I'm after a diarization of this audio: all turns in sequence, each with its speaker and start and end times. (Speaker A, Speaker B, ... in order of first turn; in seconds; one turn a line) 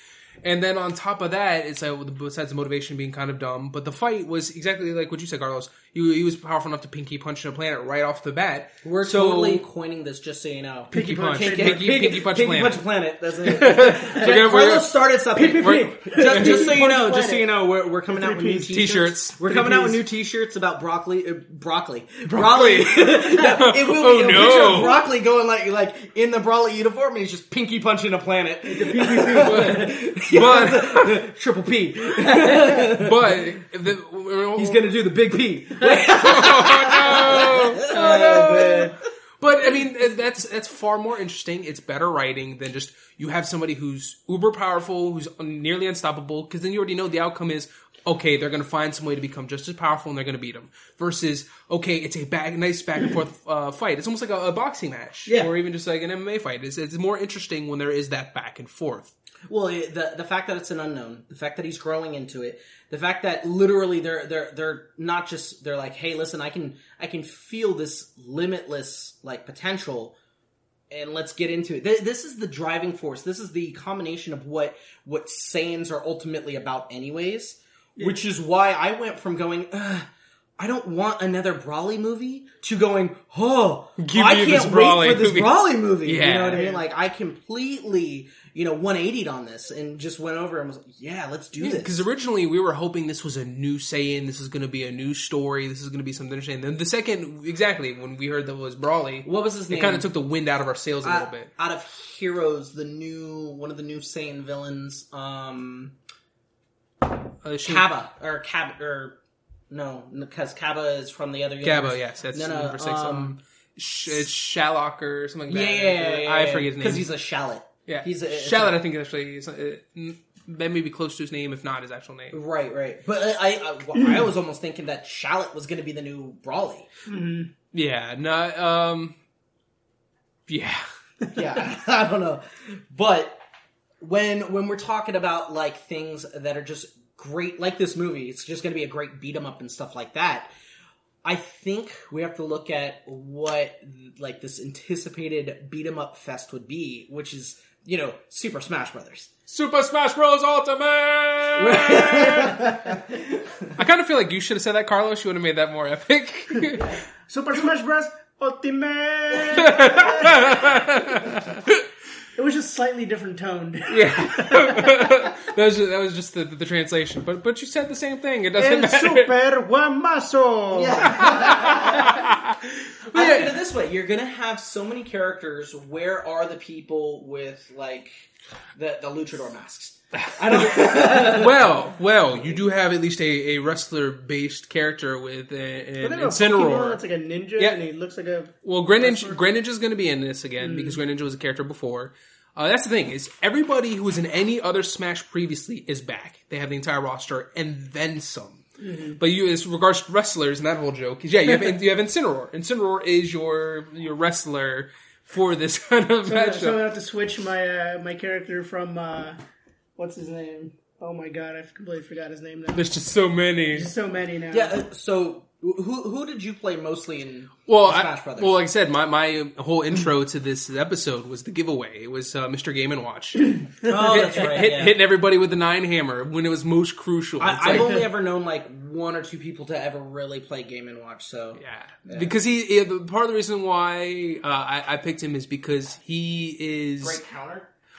Speaker A: 0.4-9.7
Speaker B: 8.8-33.4
Speaker A: 10.9-12.8
Speaker C: 10.9-11.8
Speaker A: 13.4-14.9
Speaker C: 13.8-14.3
Speaker C: 15.3-17.5
Speaker A: 15.6-16.8
Speaker C: 18.1-20.0
Speaker A: 18.7-19.7
Speaker A: 22.3-25.0
Speaker A: 29.2-31.2
Speaker A: 32.4-34.9
Speaker B: 34.6-39.0
Speaker A: 35.8-59.1
Speaker C: 37.9-38.9
Speaker C: 55.3-55.5
Speaker B: 59.5-70.2
Speaker B: 70.9-92.0
Speaker A: 84.0-86.6
Speaker C: 86.5-86.8
Speaker A: 91.6-101.5
Speaker B: 99.2-100.1
Speaker B: 101.0-106.0
Speaker A: 107.4-107.9
Speaker B: 107.7-109.2
Speaker B: 109.7-113.3
Speaker A: 111.6-117.1
Speaker B: 115.5-118.8
Speaker A: 117.9-122.4
Speaker B: 122.3-126.9
Speaker C: 127.1-127.5
Speaker A: 127.7-129.2
Speaker A: 130.5-130.8
Speaker B: 131.3-133.4
Speaker B: 134.0-140.5
Speaker B: 141.2-149.3
Speaker A: 149.5-152.8
Speaker B: 151.6-153.7
Speaker A: 153.8-157.0
Speaker C: 156.7-161.4
Speaker A: 159.4-161.8
Speaker C: 162.4-165.3
Speaker A: 163.9-169.3
Speaker C: 168.6-171.6
Speaker B: 170.7-172.2
Speaker A: 171.1-173.5
Speaker B: 173.1-181.7
Speaker A: 180.2-187.0
Speaker C: 186.0-189.4
Speaker A: 188.6-198.7
Speaker C: 190.6-191.0
Speaker C: 198.8-199.2
Speaker A: 199.2-206.8
Speaker C: 206.3-209.4
Speaker C: 210.0-212.9
Speaker A: 212.7-213.9
Speaker C: 213.7-214.8
Speaker B: 214.5-218.6
Speaker A: 217.7-228.0
Speaker C: 223.4-224.3
Speaker B: 223.8-225.0
Speaker B: 227.4-232.3
Speaker A: 231.6-237.2
Speaker B: 237.0-237.7